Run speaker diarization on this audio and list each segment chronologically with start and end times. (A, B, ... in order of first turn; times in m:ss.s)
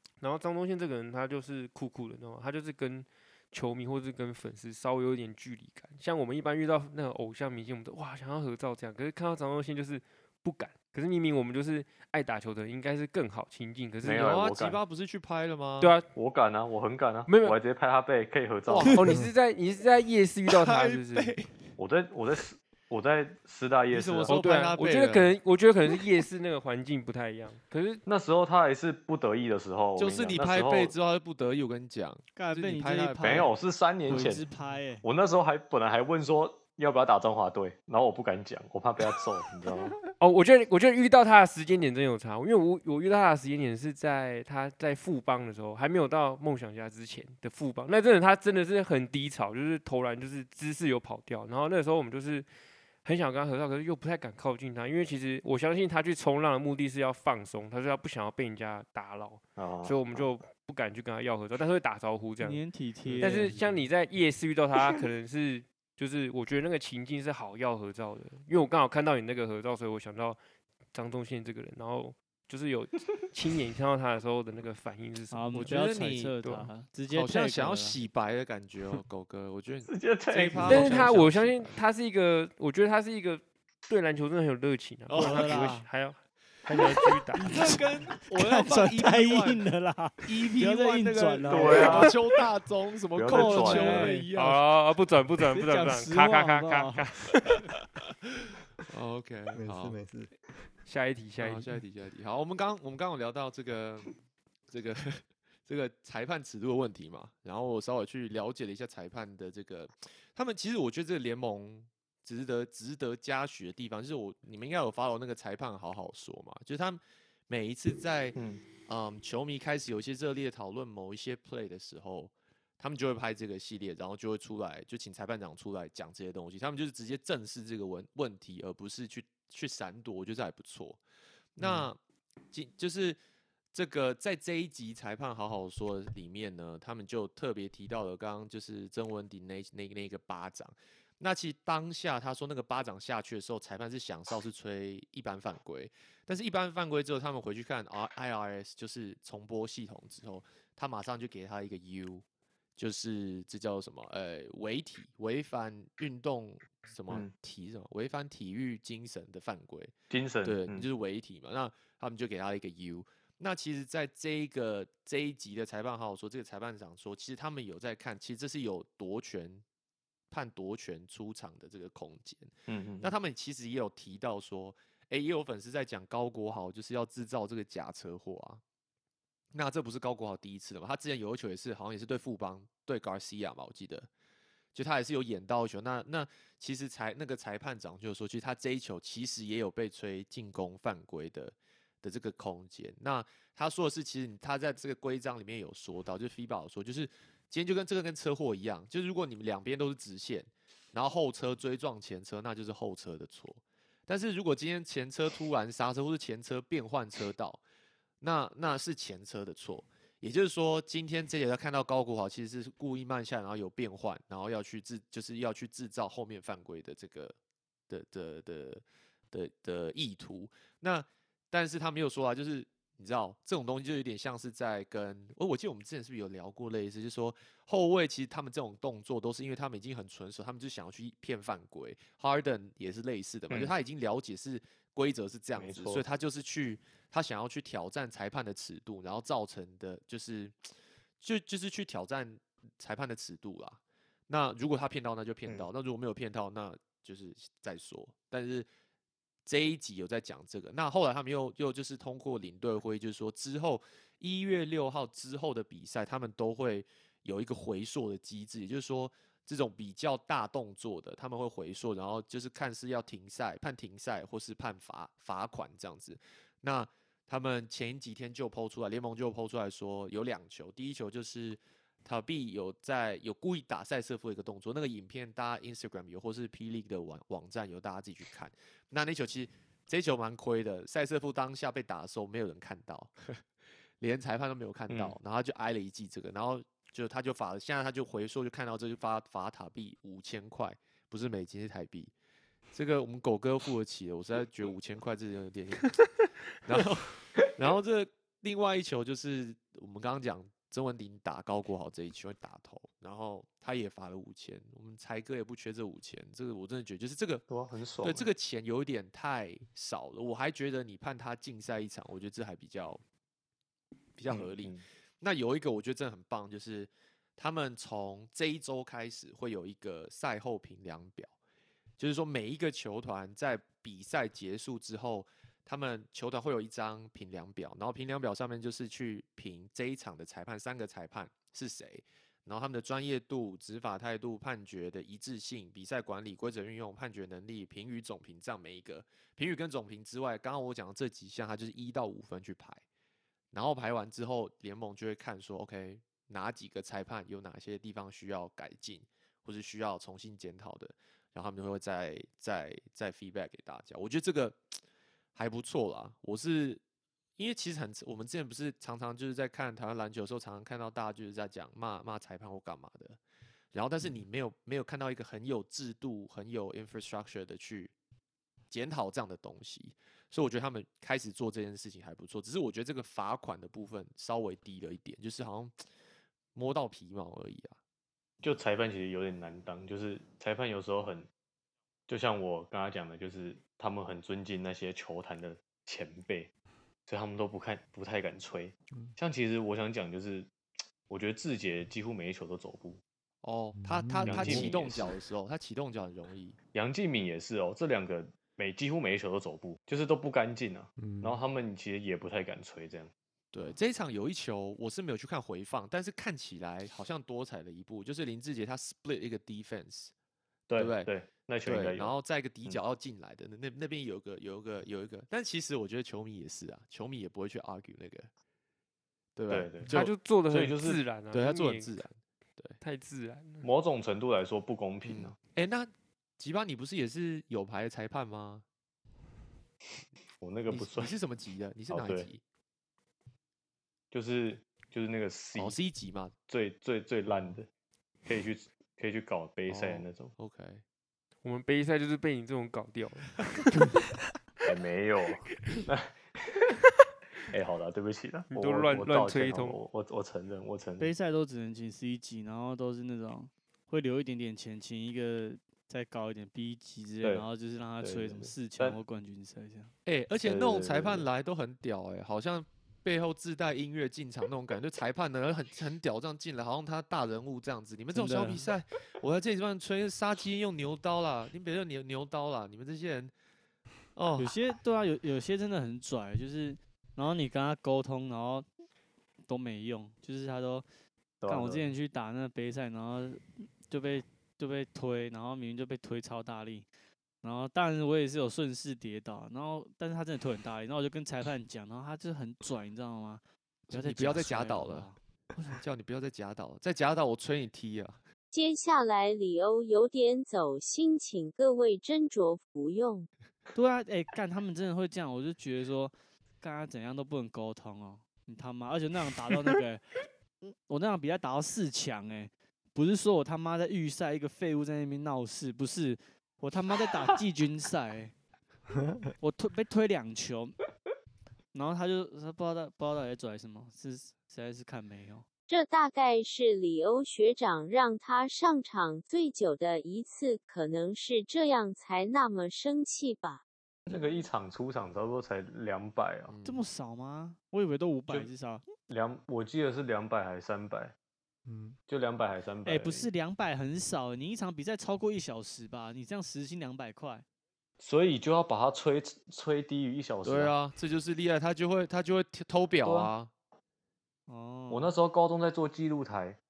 0:00.2-0:14.2 A
0:14.0-0:14.8 B
0:14.2-0:15.9 C
0:15.8-0:16.1 A
0:16.2-0:19.0 B
0:17.3-0:17.6 A
0:18.7-0:19.0 C
0:18.9-0:21.3 A
0:20.5-0:21.5 C
0:21.8-0:24.4 B
0:23.9-0:25.4 C
0:24.3-0:28.0 A
0:28.1-0:30.9 B
0:30.0-0:33.5 C
0:32.4-0:33.6 D
0:33.2-0:34.5 B
0:34.1-0:35.0 D
0:35.0-0:40.0 B
0:40.2-0:52.5 A
0:53.0-1:02.6 A
0:59.6-1:00.3 B
1:02.4-1:03.6 D
1:03.2-1:10.4 A
1:10.9-1:16.7 A
1:15.3-1:18.0 D
1:15.6-1:16.4 C
1:17.1-1:21.8 C
1:19.9-1:21.2 B
1:20.7-1:27.8 A
1:25.1-1:25.8 C
1:25.1-1:25.9 D
1:26.8-1:32.2 D
1:27.4-1:29.6 C
1:30.2-1:34.6 C
1:31.5-1:32.1 B
1:33.2-1:34.1 B
1:33.3-1:34.3 D
1:34.3-1:37.6 A
1:35.5-1:37.0 D
1:38.9-1:40.0 C
1:39.5-1:40.4 E
1:40.9-1:41.7 A
1:41.4-1:44.1 C
1:44.7-2:11.0 C
1:58.4-1:58.6 B
2:11.6-2:12.0 C
2:12.5-2:13.2 C
2:13.7-2:32.2 C
2:32.8-2:49.6 C
2:40.1-2:40.9 B
2:50.3-2:58.6 C
2:52.7-2:53.1 B
2:59.5-3:04.1 C
3:04.8-3:27.6 C
3:28.2-3:37.4 C
3:37.9-4:08.7 C
3:55.6-3:56.0 B
4:09.5-4:43.4 C
4:44.0-4:52.1 C
4:44.9-4:45.2 B
4:52.7-4:56.0 C
4:56.6-5:07.4 C
5:07.5-5:08.3 B
5:08.0-5:13.0 C
5:14.2-5:21.3 C
5:14.3-5:14.8 B
5:22.0-5:42.8 C
5:43.5-5:54.8 C
5:55.4-5:56.8 C
5:57.4-6:03.2 C
6:03.7-6:07.9 C
6:08.7-6:15.8 C
6:16.6-6:17.8 C
6:18.4-6:21.3 B
6:22.1-6:26.5 B
6:27.1-6:30.5 B
6:31.1-6:33.0 B
6:33.4-6:36.6 C
6:33.8-6:34.7 E
6:34.2-6:35.2 B
6:36.7-6:43.1 B
6:41.0-6:41.4 E
6:43.5-6:50.1 C
6:50.7-6:52.2 B
6:50.8-6:51.1 C
6:51.6-6:58.3 C
6:59.4-7:00.1 C
6:59.5-7:00.0 B
6:59.9-7:01.9 A
7:00.5-7:01.0 B
7:01.3-7:02.8 C
7:02.8-7:03.7 A
7:03.6-7:05.4 B
7:05.0-7:08.6 C
7:10.4-7:11.1 B
7:10.7-7:12.4 C
7:11.9-7:12.3 B
7:14.1-7:15.8 B
7:15.6-7:16.4 C
7:16.5-7:17.7 B
7:18.3-7:20.3 B
7:19.7-7:20.8 C
7:21.4-7:23.9 A
7:24.6-7:26.8 B
7:27.5-7:31.1 B
7:28.5-7:29.8 A
7:31.0-7:39.9 D
7:37.2-7:37.5 B
7:38.0-7:39.0 B
7:40.1-7:53.3 C
7:40.4-7:41.3 B
7:48.1-7:48.7 D
7:54.2-7:54.6 C
7:54.4-7:58.7 D
7:59.5-8:00.8 D
8:01.4-8:01.9 B
8:01.5-8:06.9 D
8:07.4-8:15.8 D
8:13.9-8:15.1 C
8:15.8-8:18.2 C
8:18.5-8:23.3 F
8:23.7-8:30.0 D
8:30.6-8:38.3 D
8:38.9-8:39.3 E
8:39.4-8:40.8 D
8:41.7-8:45.4 D
8:45.7-8:53.6 F
8:54.1-8:56.6 B
8:56.5-8:56.8 C
8:56.6-8:58.8 D
8:59.1-9:01.2 B
9:01.7-9:02.0 E
9:02.1-9:03.3 B
9:02.8-9:07.4 D
9:08.0-9:10.7 B
9:10.4-9:13.5 C
9:13.0-9:13.3 B
9:14.5-9:15.1 D
9:14.9-9:16.6 B